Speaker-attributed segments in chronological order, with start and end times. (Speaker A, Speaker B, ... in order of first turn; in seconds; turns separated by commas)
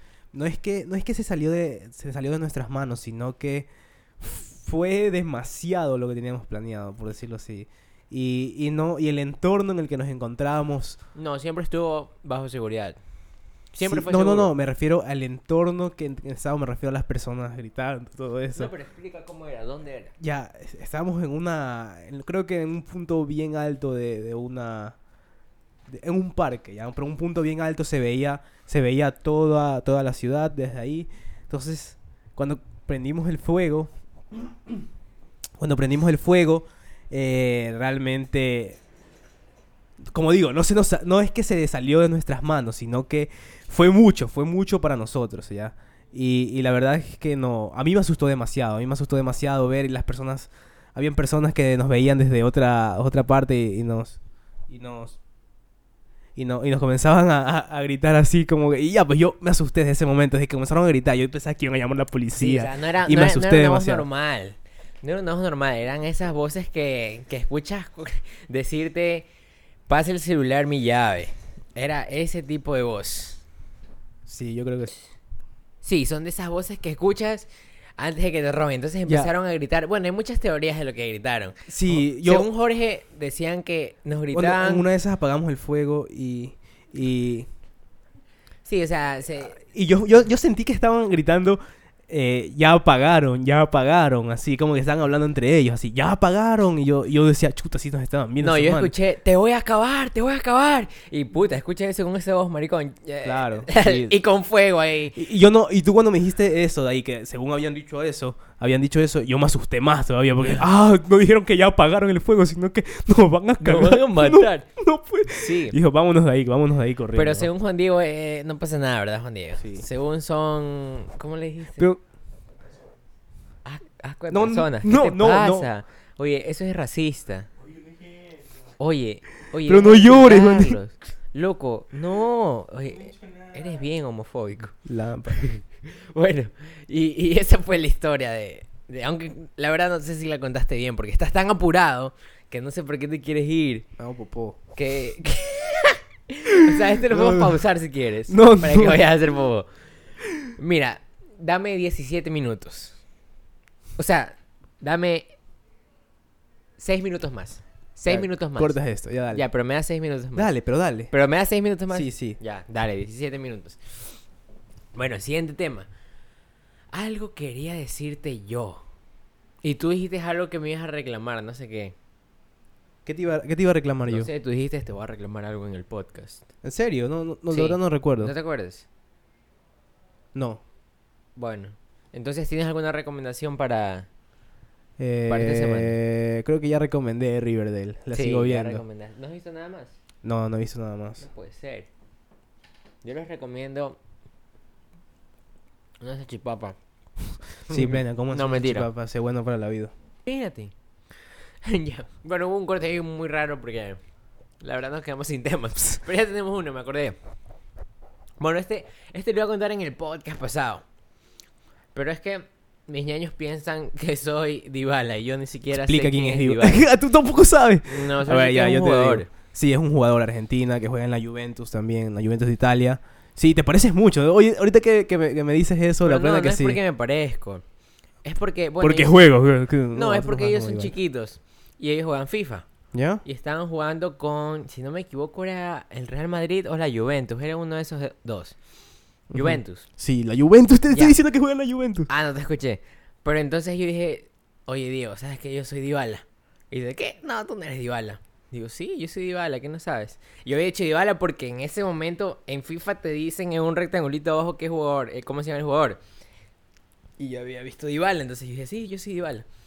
Speaker A: 0.3-3.7, Speaker A: 4.2-11.0, Speaker B: 11.2-13.0, Speaker B: 13.7-14.5, Speaker A: 13.8-18.7, Speaker B: 18.6-20.1, Speaker A: 20.2-25.0, Speaker A: 25.9-34.8, Speaker A: 35.6-38.8, Speaker A: 40.1-55.2, Speaker A: 56.4-64.1, Speaker B: 62.4-69.3, Speaker B: 69.9-73.4, Speaker A: 74.3-74.9, Speaker B: 75.8-84.9, Speaker A: 79.1-79.3, Speaker A: 81.7-82.5, Speaker A: 84.3-87.5, Speaker B: 88.7-89.6, Speaker A: 89.5-98.9, Speaker B: 98.4-105.2, Speaker A: 103.2-104.2, Speaker A: 105.2-117.5, Speaker B: 113.6-114.7, Speaker B: 115.3-115.8, Speaker B: 117.1-121.9, Speaker A: 119.6-119.9, Speaker B: 123.7-127.5, Speaker A: 124.3-125.7, Speaker B: 128.8-134.8, Speaker A: 129.7-130.8, Speaker A: 134.8-135.5, Speaker B: 135.3-143.9, Speaker A: 144.0-144.6, Speaker B: 144.8-149.7, Speaker A: 146.7-147.7, Speaker A: 148.3-149.1, Speaker B: 150.6-153.0, Speaker B: 154.0-155.3, Speaker B: 156.8-158.8, Speaker A: 158.1-159.5, Speaker B: 159.3-160.5, Speaker A: 160.3-161.1, Speaker B: 161.1-164.1, Speaker A: 161.9-162.4, Speaker B: 164.9-165.9, Speaker B: 166.9-168.8, Speaker B: 169.6-171.9, Speaker A: 173.1-174.3, Speaker B: 174.1-176.4, Speaker A: 176.6-178.3, Speaker B: 177.5-178.9, Speaker A: 180.3-180.6, Speaker B: 181.4-184.1, Speaker A: 185.0-188.8, Speaker B: 185.3-186.0, Speaker B: 188.1-190.0, Speaker A: 190.2-191.2, Speaker B: 191.2-191.9, Speaker B: 193.0-194.0, Speaker B: 196.0-196.8, Speaker B: 197.7-198.9, Speaker A: 197.7-199.9, Speaker B: 200.2-200.7, Speaker B: 201.6-204.0, Speaker B: 204.6-207.2, Speaker B: 208.4-210.8, Speaker B: 211.9-216.9, Speaker A: 215.7-226.8, Speaker B: 217.9-219.3, Speaker B: 226.0-227.6, Speaker B: 228.2-229.2, Speaker A: 228.8-230.9, Speaker B: 229.9-232.7, Speaker A: 232.9-233.2, Speaker B: 233.2-238.6, Speaker A: 239.3-242.1, Speaker B: 239.3-239.9, Speaker B: 240.9-241.2, Speaker B: 242.1-256.0, Speaker B: 257.2-259.5